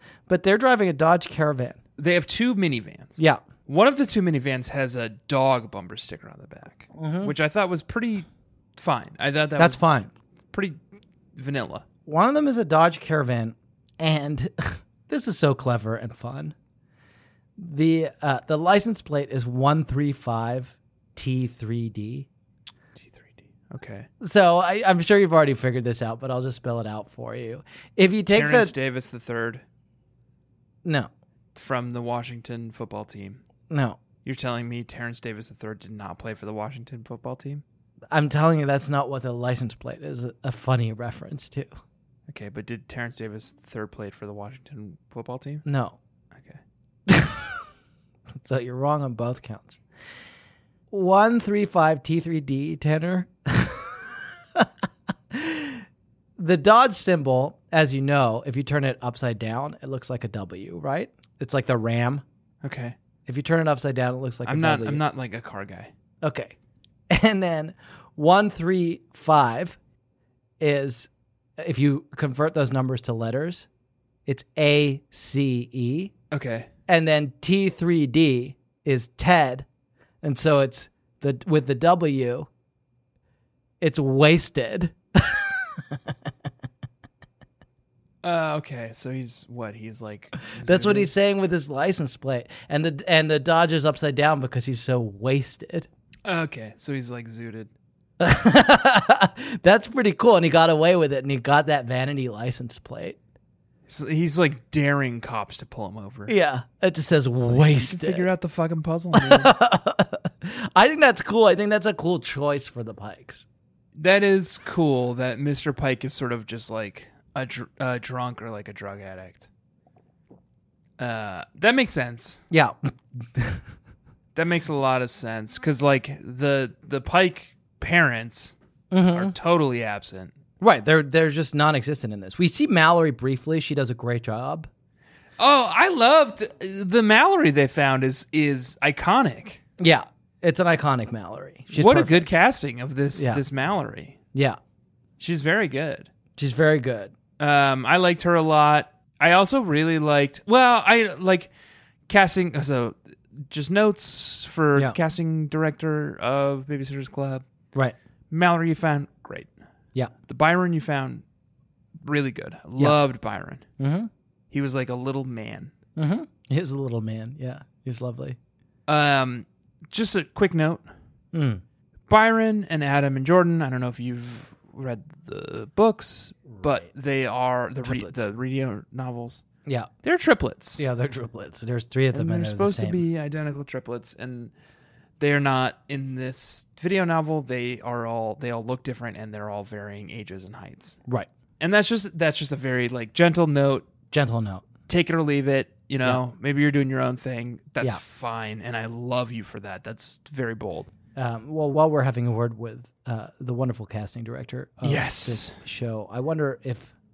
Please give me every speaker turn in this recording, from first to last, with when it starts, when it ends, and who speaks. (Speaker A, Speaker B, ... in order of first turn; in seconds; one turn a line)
Speaker A: 0.3-1.8
Speaker B: 2.0-9.8
Speaker A: 3.2-3.4
Speaker A: 6.9-7.3
Speaker A: 9.6-10.1
Speaker B: 10.5-10.8
Speaker B: 11.3-11.8
Speaker A: 12.1-16.6
Speaker A: 17.6-22.3
Speaker B: 23.0-24.1
Speaker A: 24.2-28.7
Speaker B: 28.3-29.6
Speaker A: 30.9-31.1
Speaker B: 31.6-33.4
Speaker A: 33.7-34.0
Speaker B: 34.2-37.6
Speaker A: 38.1-41.7
Speaker B: 42.3-45.6
Speaker A: 45.6-46.0
Speaker B: 46.3-46.6
Speaker A: 47.1-47.6
Speaker A: 48.4-49.8
Speaker A: 50.9-54.0
Speaker A: 55.3-55.8
Speaker A: 56.4-62.2
Speaker B: 62.6-63.0
Speaker A: 63.3-65.0
Speaker B: 64.5-65.9
Speaker A: 66.2-66.5
Speaker A: 67.1-69.8
Speaker A: 70.6-73.7
Speaker A: 74.3-76.1
Speaker B: 76.3-76.7
Speaker A: 76.9-79.7
Speaker A: 80.2-82.5
Speaker A: 83.8-85.8
Speaker B: 88.2-91.1
Speaker A: 90.6-95.9
Speaker B: 96.2-97.7
Speaker A: 98.2-103.2
Speaker B: 103.9-106.3
Speaker A: 106.3-108.3
Speaker B: 107.4-109.5
Speaker A: 109.2-113.4
Speaker B: 114.0-119.5
Speaker B: 121.0-122.4
Speaker A: 122.5-123.6
Speaker B: 124.3-128.6
Speaker A: 128.9-129.3
Speaker B: 129.1-130.3
Speaker A: 130.6-134.7
Speaker B: 135.4-139.6
Speaker A: 139.8-142.3
Speaker B: 141.7-144.2
Speaker A: 143.2-143.4
Speaker B: 145.2-146.1
Speaker A: 146.4-147.1
Speaker B: 147.4-151.5
Speaker B: 152.1-157.4
Speaker B: 158.3-159.5
Speaker B: 160.3-161.2
Speaker B: 162.0-163.7
Speaker A: 163.8-164.1
Speaker B: 164.5-165.7
Speaker A: 166.0-168.4
Speaker B: 168.9-170.9
Speaker A: 171.3-171.6
Speaker B: 172.1-179.4
Speaker A: 176.5-176.9
Speaker A: 177.8-178.2
Speaker B: 180.0-180.9
Speaker A: 180.8-183.0
Speaker B: 182.1-184.5
Speaker B: 185.2-191.0
Speaker B: 191.6-193.9
Speaker A: 194.1-194.7
Speaker B: 194.9-200.9
Speaker A: 201.2-206.9
Speaker B: 204.8-205.6